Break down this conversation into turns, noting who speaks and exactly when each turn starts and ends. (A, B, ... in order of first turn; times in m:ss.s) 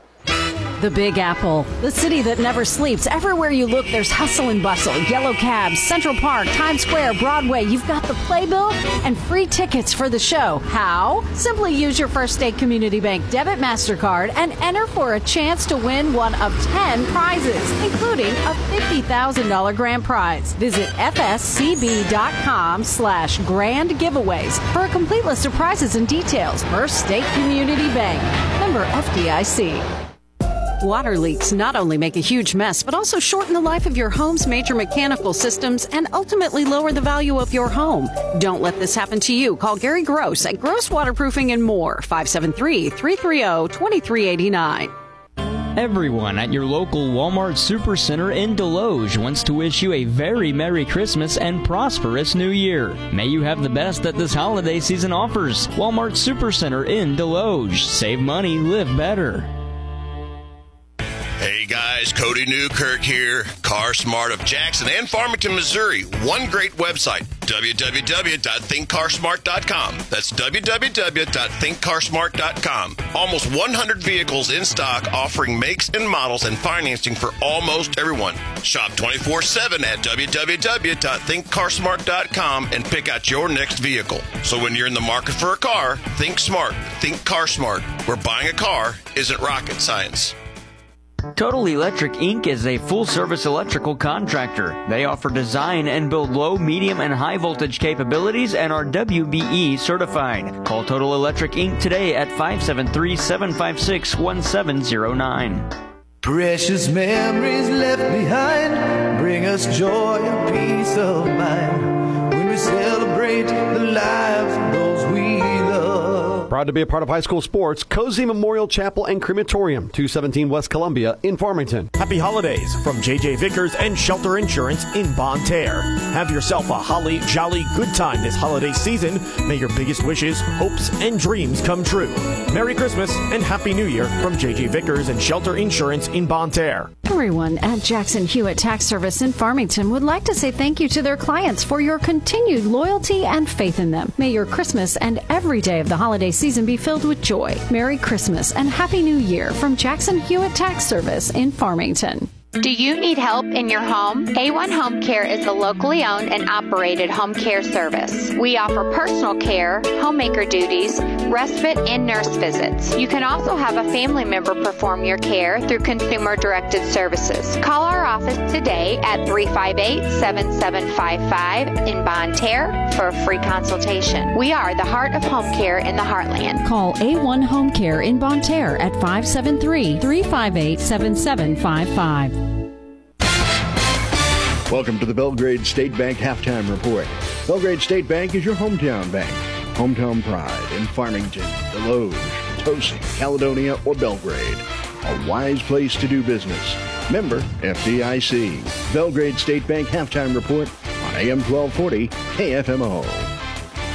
0:00.8-0:29.9 A
0:30.8-0:44.9 A
0:45.7-0:59.5 B
1:01.4-1:30.3 C
1:31.4-1:45.7 B
1:46.2-1:56.5 D
1:56.5-2:01.9 E
2:01.9-2:16.9 F
2:17.0-2:32.3 A
2:32.6-2:56.6 G
2:56.6-3:02.5 A
3:04.7-3:23.3 H